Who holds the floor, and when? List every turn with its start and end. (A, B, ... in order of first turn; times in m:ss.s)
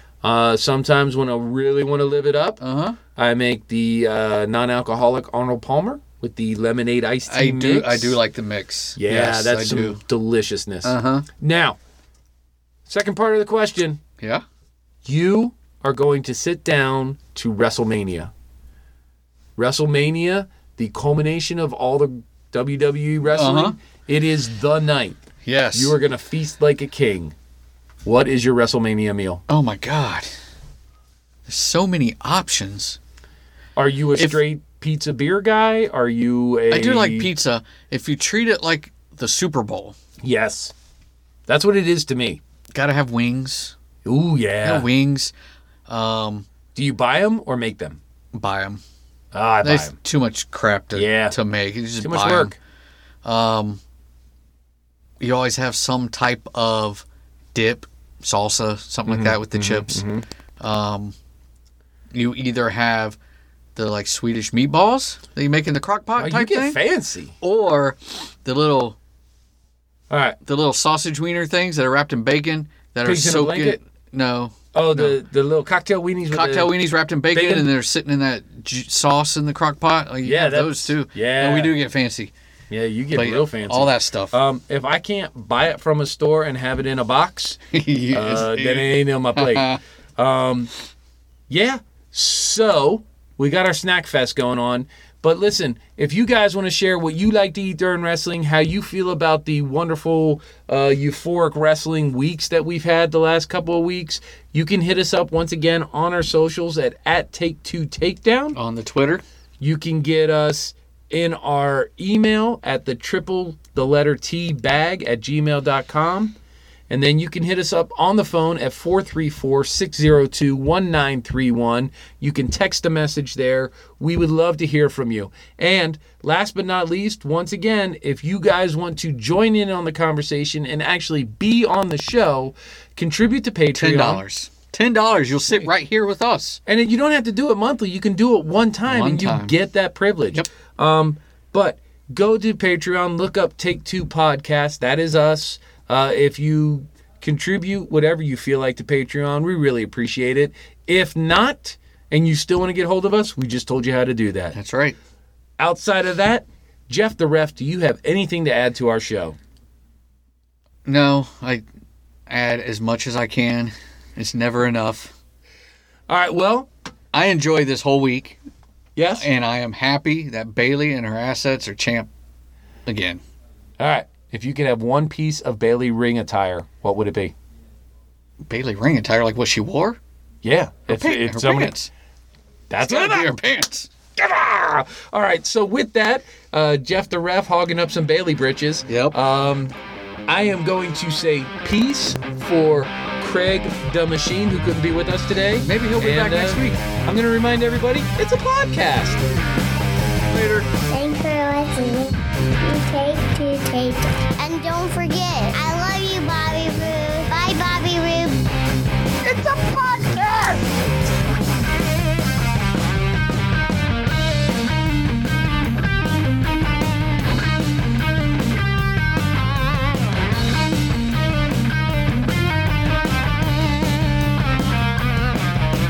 0:00.2-0:02.6 A
0:02.6-0:03.0 B
0:03.1-0:08.2 A
0:07.3-0:10.0 B
0:09.0-0:11.8 A
0:10.8-0:11.2 B
0:12.8-0:14.0 A
0:14.2-0:14.4 B
0:15.0-0:18.3 A
0:19.6-0:25.2 A
0:23.3-0:23.8 B
0:25.4-0:26.0 B
0:25.7-0:27.3 A
0:28.0-0:29.4 A
0:29.5-0:30.3 B
0:31.4-0:33.0 B
0:33.8-0:37.3 A
0:34.2-0:34.4 B
0:36.7-0:40.0 B
0:40.2-0:40.7 A
0:41.5-0:42.4 A
0:42.7-0:43.7 B
0:44.0-0:44.9 A
0:44.6-0:45.3 B
0:45.9-0:46.4 B
0:46.7-0:48.0 A
0:48.3-0:48.8 B
0:49.3-0:49.9 A
0:49.6-0:52.5 B
0:50.9-0:51.3 A
0:52.0-0:52.5 A
0:53.2-0:53.8 B
0:55.2-1:00.0 B
0:59.1-1:00.2 A
1:00.6-1:01.1 B
1:02.1-1:03.2 B
1:03.8-1:06.8 B
1:06.2-1:07.4 A
1:07.4-1:09.0 B
1:10.1-1:10.4 A
1:10.4-1:15.2 B
1:13.0-1:13.8 A
1:14.7-1:16.7 A
1:16.3-1:22.3 B
1:17.3-1:17.7 A
1:20.2-1:21.7 A
1:22.7-1:27.6 A
1:23.1-1:24.4 B
1:27.7-1:29.8 B
1:28.1-1:30.7 A
1:31.5-1:48.6 A
1:48.5-1:49.2 B
1:49.6-1:56.4 A
1:56.9-2:14.2 A
2:13.7-2:16.6 B
2:16.6-2:34.6 A
2:18.9-2:19.5 B
2:34.5-2:35.0 B
2:35.6-2:39.4 A
2:40.8-2:41.6 B
2:42.3-2:45.1 B
2:46.1-2:46.7 A
2:47.1-2:48.4 B
2:49.0-2:49.3 A
2:49.2-2:52.1 B
2:52.8-2:53.2 B
2:53.8-2:57.3 A
2:58.4-3:00.0 B
3:00.4-3:01.7 A
3:00.9-3:01.9 B
3:02.7-3:03.3 A
3:02.8-3:03.9 B
3:04.2-3:09.7 A
3:08.9-3:09.2 B
3:10.3-3:19.2 A
3:15.6-3:16.8 B
3:20.3-3:20.7 B
3:20.9-3:28.4 C
3:29.2-3:30.6 B